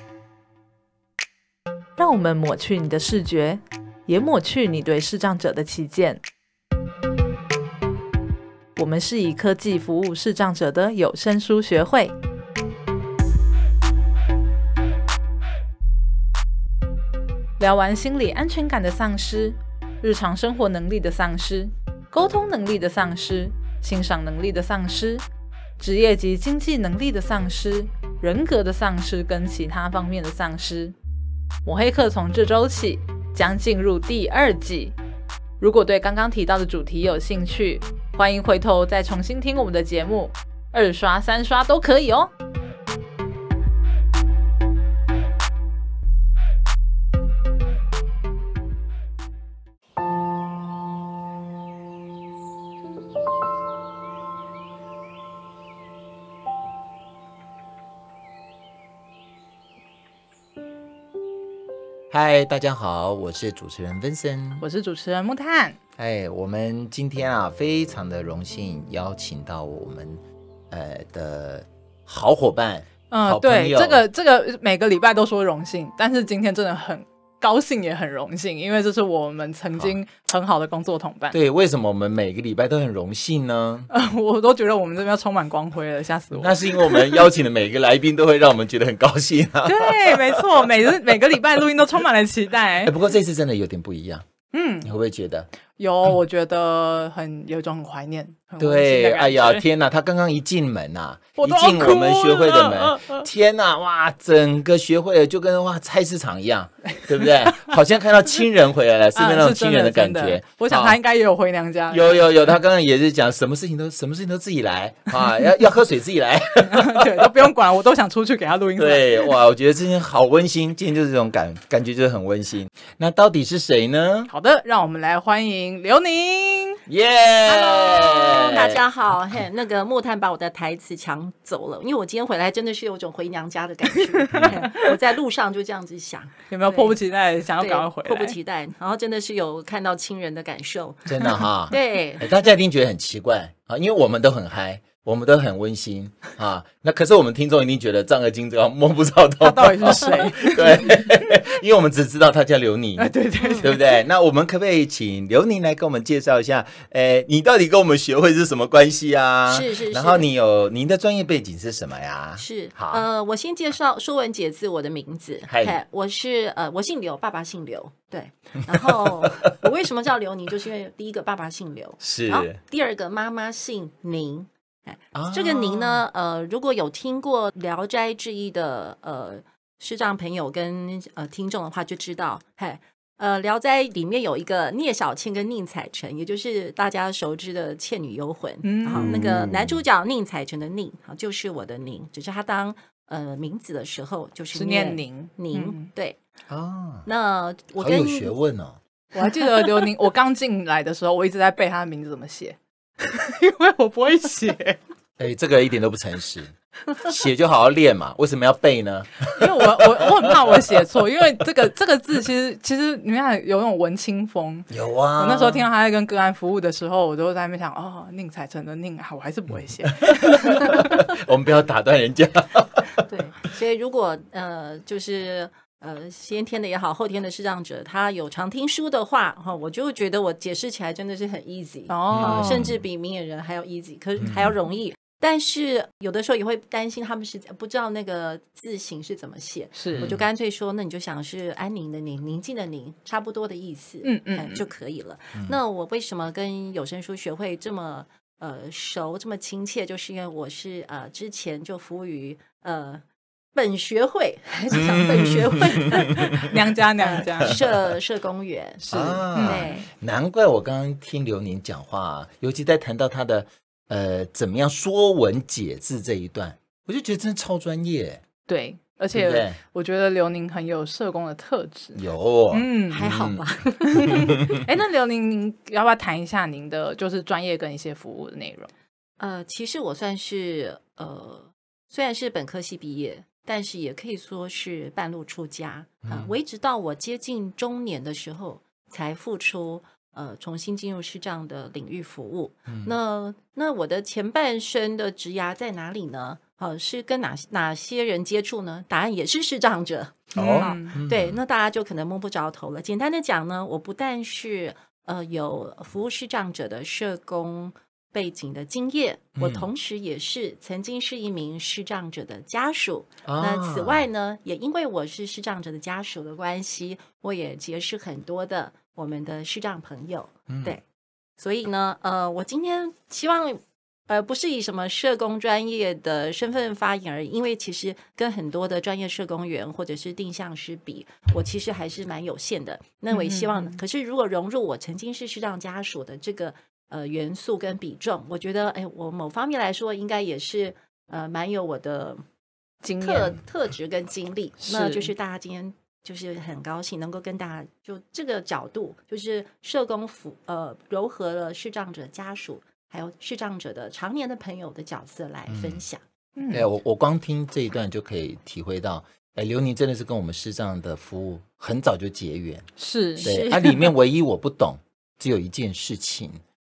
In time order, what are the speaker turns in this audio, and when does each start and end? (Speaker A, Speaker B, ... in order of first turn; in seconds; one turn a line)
Speaker A: 2.0-6.2
Speaker A: 8.8-12.1
Speaker A: 17.6-25.2
Speaker A: 25.8-30.9
Speaker A: 31.6-35.0
Speaker A: 35.6-42.3
Speaker B: 62.1-64.7
Speaker A: 64.6-65.8
Speaker B: 66.0-74.0
Speaker A: 73.1-81.4
Speaker B: 81.3-83.9
Speaker A: 83.9-87.2
Speaker B: 86.4-90.5
Speaker A: 89.6-92.9
Speaker B: 92.8-94.2
Speaker A: 94.5-94.9
Speaker B: 94.8-95.5
Speaker A: 95.8-99.6
Speaker B: 98.6-111.0
Speaker A: 101.4-103.2
Speaker A: 107.3-107.6
Speaker A: 109.1-112.3
Speaker B: 111.9-117.5
Speaker A: 116.6-119.3
Speaker B: 118.8-124.3
Speaker A: 124.3-126.8
Speaker B: 126.9-128.8
Speaker C: 127.5-136.9
Speaker A: 134.2-134.9
Speaker B: 134.3-134.6
Speaker A: 136.5-138.3
Speaker C: 137.6-142.3
Speaker B: 141.1-163.1
Speaker A: 149.4-151.2
Speaker A: 153.0-153.9
Speaker C: 153.4-153.7
Speaker C: 159.5-160.3
Speaker C: 162.4-196.2
Speaker B: 165.5-165.8
Speaker B: 168.8-169.5
Speaker B: 172.0-172.6
Speaker B: 175.1-176.0
Speaker A: 188.6-189.2
Speaker B: 188.9-189.8
Speaker A: 194.5-195.9
Speaker B: 196.5-197.1
Speaker C: 197.0-198.3
Speaker B: 197.8-198.8
Speaker A: 199.1-204.8
Speaker B: 205.2-210.8
Speaker A: 209.3-221.0
Speaker B: 214.7-215.7
Speaker B: 220.0-223.0
Speaker C: 223.0-253.0
Speaker A: 231.9-232.7
Speaker B: 232.1-232.8
Speaker B: 234.2-234.5
Speaker A: 239.8-240.1
Speaker B: 239.9-240.2
Speaker A: 244.0-244.6
Speaker C: 253.5-259.9
Speaker B: 254.7-256.5
Speaker A: 256.1-257.6
Speaker A: 258.8-259.8
Speaker B: 258.9-268.2
Speaker A: 268.5-272.0
Speaker B: 269.1-269.6
Speaker B: 271.9-274.6
Speaker A: 272.5-273.0
Speaker C: 272.9-274.3
Speaker A: 273.8-278.7
Speaker C: 279.2-320.8
Speaker B: 286.0-286.3
Speaker B: 292.7-292.9
Speaker B: 300.3-301.4
Speaker A: 300.4-301.0
Speaker B: 309.4-309.6
Speaker B: 313.2-314.1
Speaker B: 320.5-320.8
Speaker C: 321.4-342.2
Speaker A: 333.1-333.8
Speaker A: 342.8-343.4
Speaker C: 343.0-356.0
Speaker A: 344.6-345.1
Speaker B: 355.5-355.8
Speaker A: 356.4-356.7
Speaker B: 356.5-362.7
Speaker A: 362.8-363.3
Speaker C: 363.2-363.9
Speaker B: 363.2-366.4